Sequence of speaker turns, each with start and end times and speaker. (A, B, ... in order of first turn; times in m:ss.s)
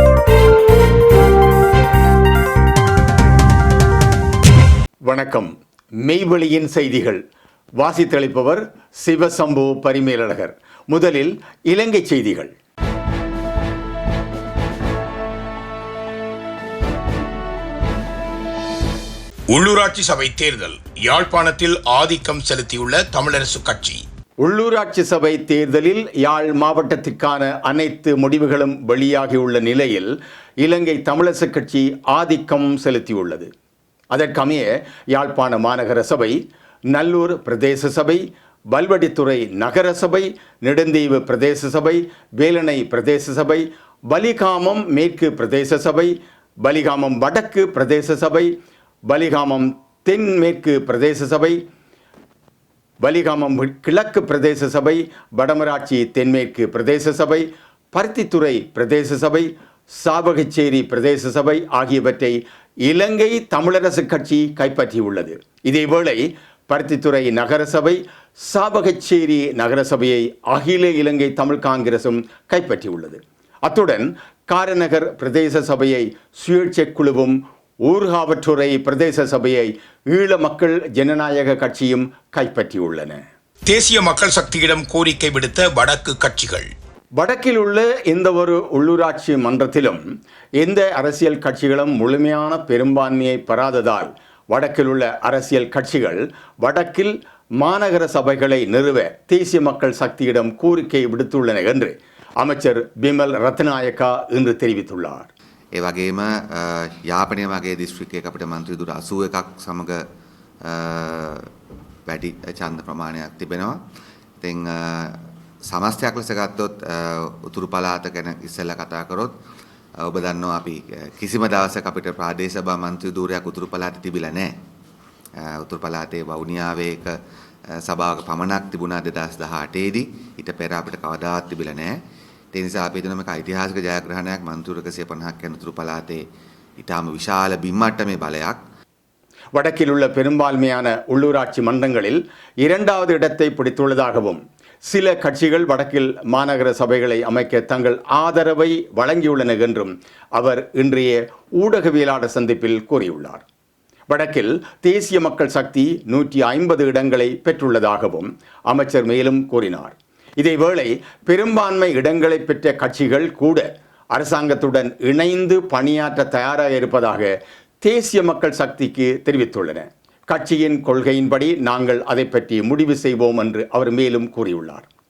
0:05.0-0:05.5 A
0:06.0-0:07.2 A
0:07.8-0:12.5 A
0:19.5-0:24.0 B
0:24.4-0:33.5 A
0:34.1-0:36.4 A
0:36.9-0:48.5 A
0:49.1-0:51.6 A
0:53.0-1:23.2 A
1:23.7-1:26.7 B
1:27.2-1:30.0 A
1:30.6-1:45.3 A
1:45.7-1:50.0 C
1:50.6-1:51.5 C
1:52.1-1:53.8 C
1:54.4-1:59.3 C
2:00.0-2:04.6 C
2:05.4-2:07.2 C
2:07.7-2:12.0 C
2:12.5-2:16.2 C
2:16.8-2:18.6 C
2:19.5-2:33.4 A
2:34.1-2:47.3 A
2:47.8-2:54.9 A